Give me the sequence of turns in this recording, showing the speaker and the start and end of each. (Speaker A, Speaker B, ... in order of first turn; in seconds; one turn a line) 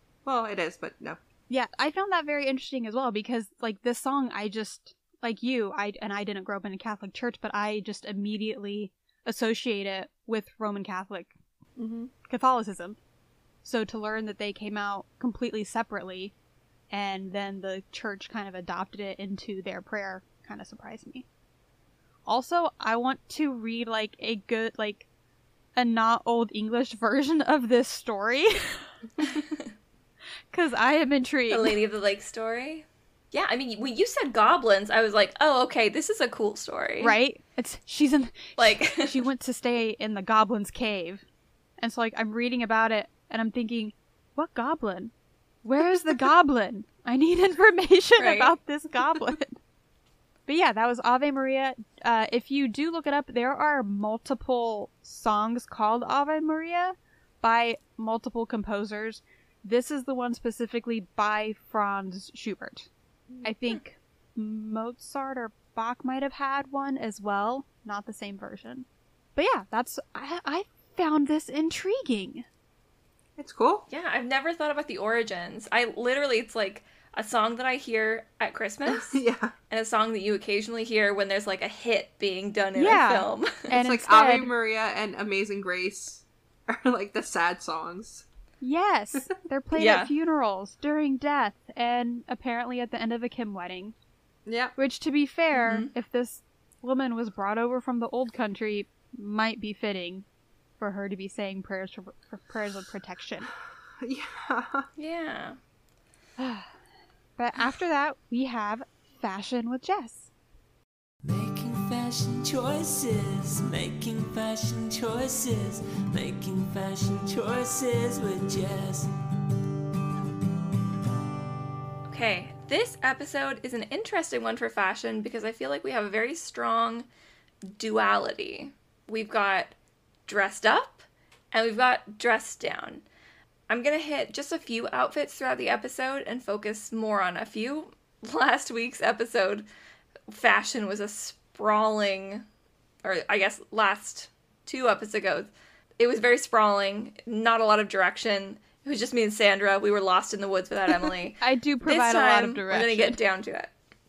Speaker A: 0.2-1.2
Speaker B: 1.5-11.3
Speaker A: 11.8-12.1
Speaker B: 12.2-13.0
Speaker B: 13.6-16.3
Speaker B: 16.9-21.3
Speaker B: 22.2-25.1
Speaker B: 25.8-28.9
Speaker B: 30.5-31.8
Speaker C: 31.5-37.2
Speaker B: 37.0-41.2
Speaker C: 38.6-39.2
Speaker B: 41.8-45.1
Speaker B: 45.6-49.6
Speaker C: 48.2-48.5
Speaker B: 50.5-62.9
Speaker B: 63.4-72.4
Speaker A: 73.4-73.8
Speaker C: 73.9-83.7
Speaker A: 78.8-79.5
Speaker B: 82.8-84.5
Speaker A: 83.7-88.2
Speaker B: 88.6-93.9
Speaker C: 89.7-90.1
Speaker A: 94.5-94.7
Speaker B: 94.8-100.2
Speaker C: 95.5-95.9
Speaker B: 100.8-103.5
Speaker A: 104.0-104.9
Speaker C: 105.0-105.6
Speaker B: 106.4-106.7
Speaker B: 107.4-110.3
Speaker D: 111.2-119.1
Speaker C: 122.1-127.0
Speaker C: 127.7-129.7
Speaker C: 130.3-133.0
Speaker C: 133.7-139.7
Speaker C: 140.3-142.4
Speaker C: 143.0-153.7
Speaker B: 151.4-153.2